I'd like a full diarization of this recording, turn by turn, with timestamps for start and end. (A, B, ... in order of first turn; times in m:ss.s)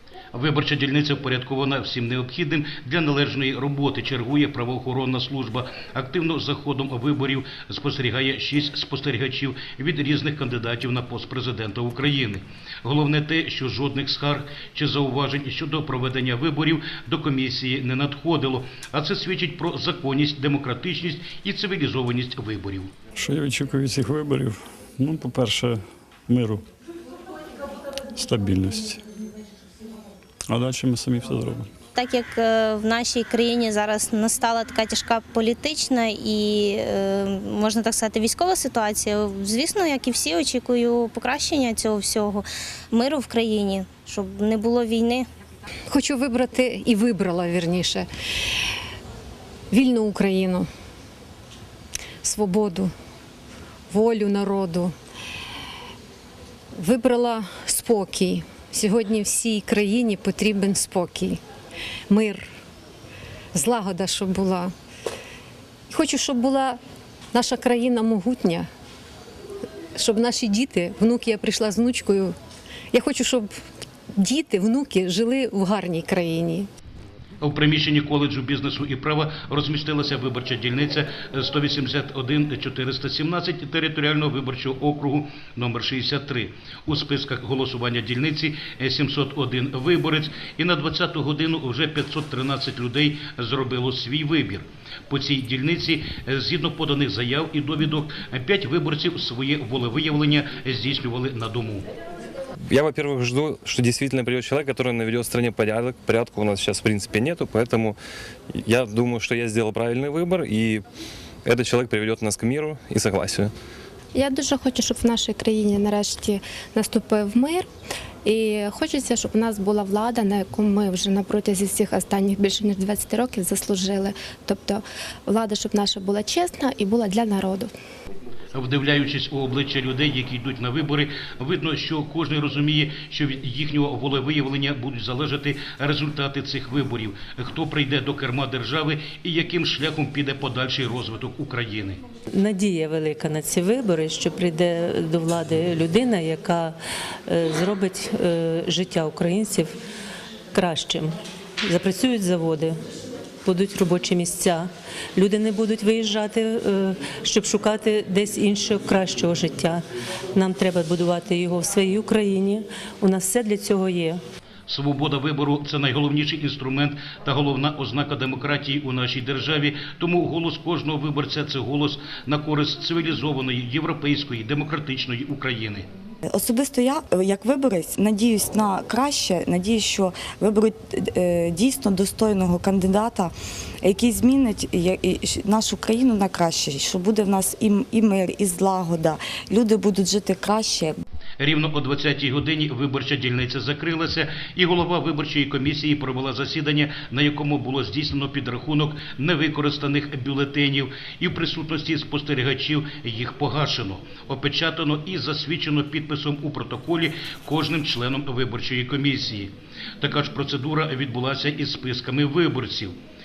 0:00.3-0:22.9 A
0:23.2-0:26.6 B
0:28.2-0:29.0 B
0:30.5-0:31.7 B
0:31.9-0:45.2 C
0:45.9-0:48.1 D
0:49.7-0:50.7 D
0:52.2-0:52.9 D
0:53.9-0:54.9 D
0:56.8-1:01.4 D
1:02.1-1:02.4 D
1:03.6-1:04.7 D
1:05.9-1:06.8 D
1:07.3-1:08.7 D
1:10.0-1:12.3 D
1:12.9-1:13.5 D
1:14.2-1:16.7 D
1:17.4-1:41.8 A
1:42.7-1:48.0 E
1:48.6-1:50.8 E
1:51.4-1:53.5 E
1:54.1-1:57.7 F
1:58.2-2:07.7 F
2:08.5-2:22.0 A
2:22.3-2:26.8 G
2:27.3-2:29.7 G
2:30.5-2:31.1 G
2:31.6-2:32.8 G
2:33.4-2:39.8 G
2:40.3-2:44.2 G
2:44.7-2:55.9 A
2:56.3-3:11.0 H
3:11.4-3:33.0 A